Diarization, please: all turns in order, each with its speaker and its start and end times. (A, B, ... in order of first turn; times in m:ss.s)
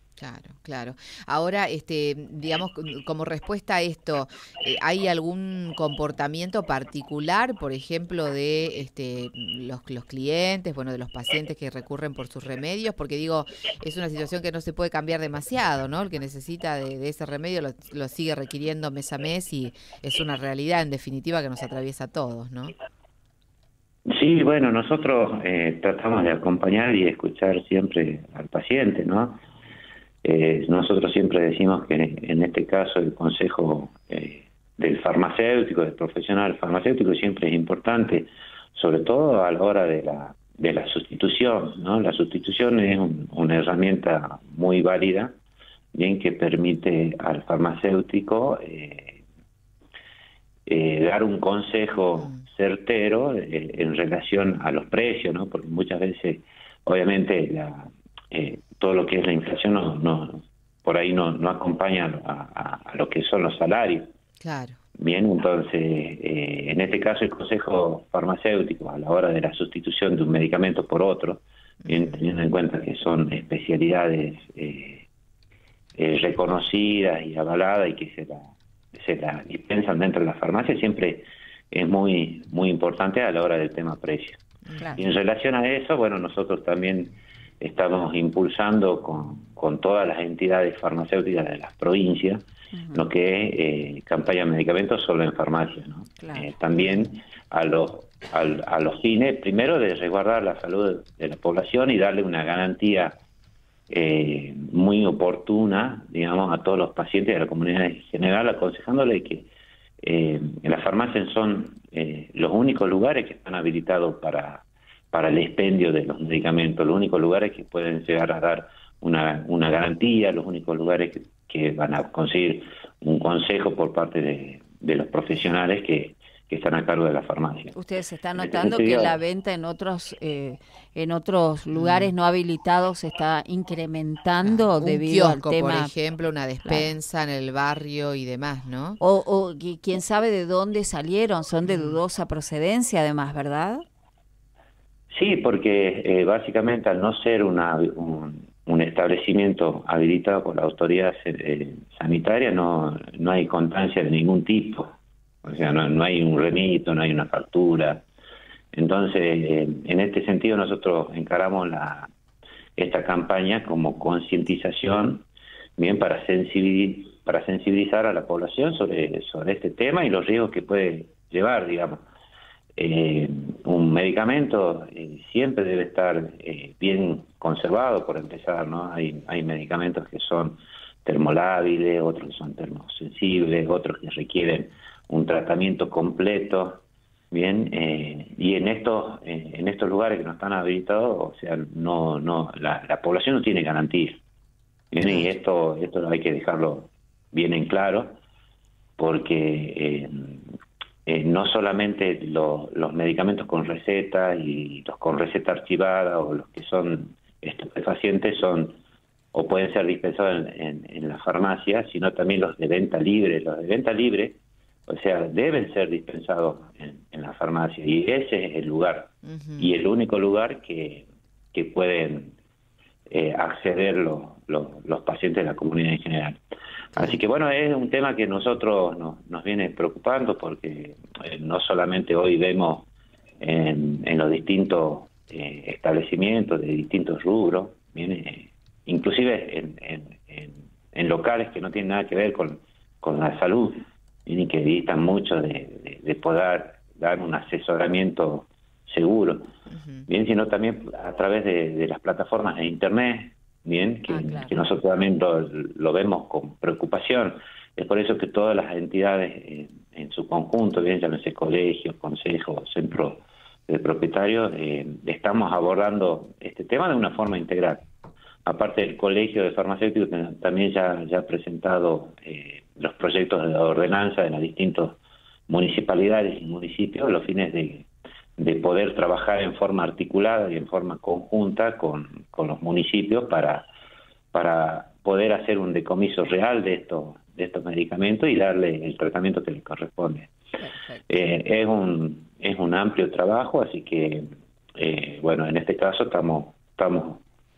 0:00.2-0:22.7 A
0:24.1-0:29.4 B
0:30.2-0:45.3 B
0:45.9-0:49.2 B
0:50.7-1:04.1 B
1:04.4-1:04.8 A
1:05.0-1:15.1 B
1:11.8-1:12.2 A
1:16.0-1:24.4 B
1:24.9-1:43.2 B
1:32.7-1:33.1 C
1:36.2-1:37.0 C
1:43.9-1:49.5 B
1:50.0-2:07.8 B
2:07.7-2:15.9 C
2:08.4-2:09.2 B
2:11.8-2:12.1 A
2:14.4-2:19.0 A
2:19.0-2:23.8 C
2:21.6-2:22.0 A
2:25.1-2:34.9 B
2:35.4-2:38.1 B
2:38.7-2:42.1 B
2:42.8-2:45.3 B
2:45.8-2:52.0 B
2:52.8-3:14.2 B
3:14.9-3:18.2 B
3:19.0-3:20.4 B
3:21.1-3:28.8 B
3:29.3-3:42.3 B
3:39.2-3:39.7 A
3:43.1-3:46.4 B
3:47.0-3:52.9 B
3:53.4-4:09.5 B
4:09.7-4:10.1 A
4:10.1-4:27.8 B
4:14.1-4:14.5 C
4:28.4-4:43.7 B
4:44.3-4:50.3 B
4:50.6-4:51.1 C
4:51.1-4:57.2 B